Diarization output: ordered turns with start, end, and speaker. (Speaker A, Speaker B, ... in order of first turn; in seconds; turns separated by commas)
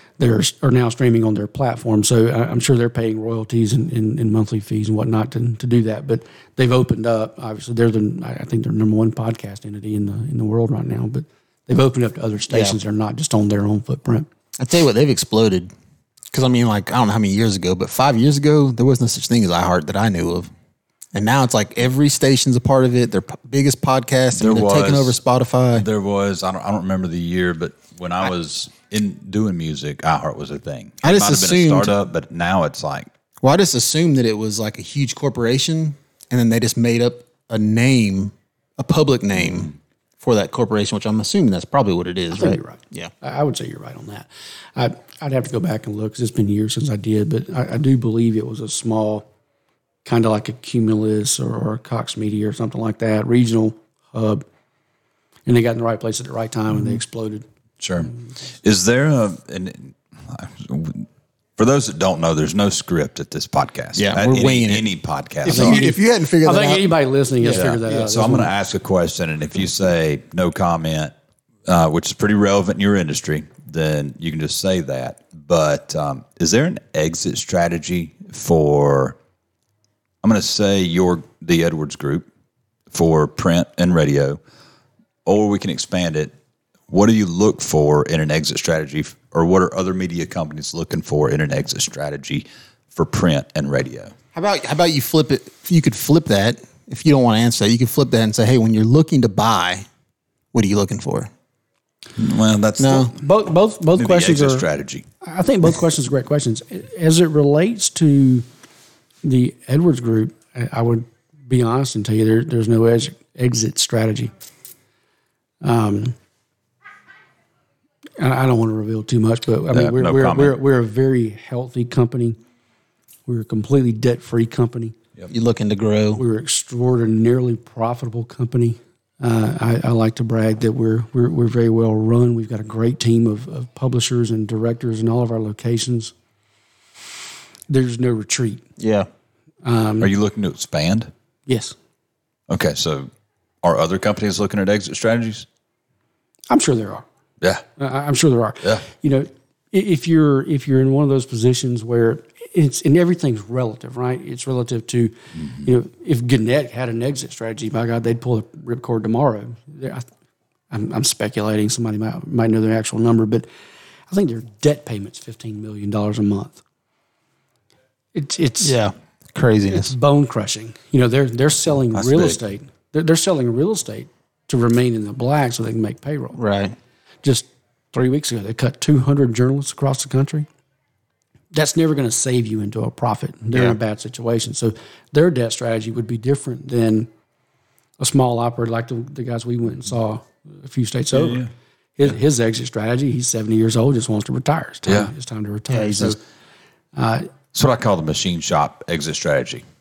Speaker A: 0.2-14.3, Speaker B: 12.5-12.8, Speaker B: 14.6-15.7, Speaker B: 16.3-20.5, Speaker B: 21.1-25.9, Speaker C: 24.3-25.2, Speaker C: 25.7-33.1, Speaker B: 31.0-31.9, Speaker B: 33.4-43.1, Speaker A: 42.3-49.3, Speaker A: 50.0-54.4, Speaker A: 55.5-57.5, Speaker C: 57.8-65.8, Speaker B: 64.0-64.9, Speaker B: 65.4-67.8, Speaker A: 65.5-68.5, Speaker C: 67.5-71.1, Speaker C: 71.7-79.2, Speaker C: 80.2-82.3, Speaker C: 82.9-84.4, Speaker C: 85.2-86.3, Speaker C: 86.9-94.1, Speaker B: 94.3-99.9, Speaker B: 100.5-101.3, Speaker C: 102.2-103.2, Speaker B: 102.8-103.1, Speaker A: 103.1-104.7, Speaker C: 104.0-105.0, Speaker A: 105.2-108.5, Speaker A: 109.2-114.3, Speaker A: 115.6-116.2, Speaker A: 118.2-122.4, Speaker C: 119.7-120.6, Speaker A: 123.3-124.9, Speaker B: 125.3-126.2, Speaker A: 126.2-136.1, Speaker A: 137.7-138.7, Speaker B: 138.8-139.1, Speaker A: 139.6-140.1, Speaker C: 140.0-141.1, Speaker A: 141.5-141.8, Speaker C: 142.5-143.1, Speaker C: 143.6-145.4, Speaker A: 146.5-147.0, Speaker A: 147.8-160.1, Speaker A: 160.7-163.5, Speaker A: 164.1-166.6, Speaker A: 168.1-168.8, Speaker B: 168.6-169.9, Speaker A: 169.7-176.4, Speaker C: 171.9-172.4, Speaker B: 176.3-176.8, Speaker A: 177.2-180.5, Speaker A: 181.5-187.1, Speaker B: 183.5-183.8, Speaker A: 188.0-191.4, Speaker C: 191.1-191.5, Speaker A: 192.0-196.2, Speaker C: 194.8-195.1, Speaker B: 195.7-196.2, Speaker A: 196.9-197.3, Speaker C: 197.5-199.6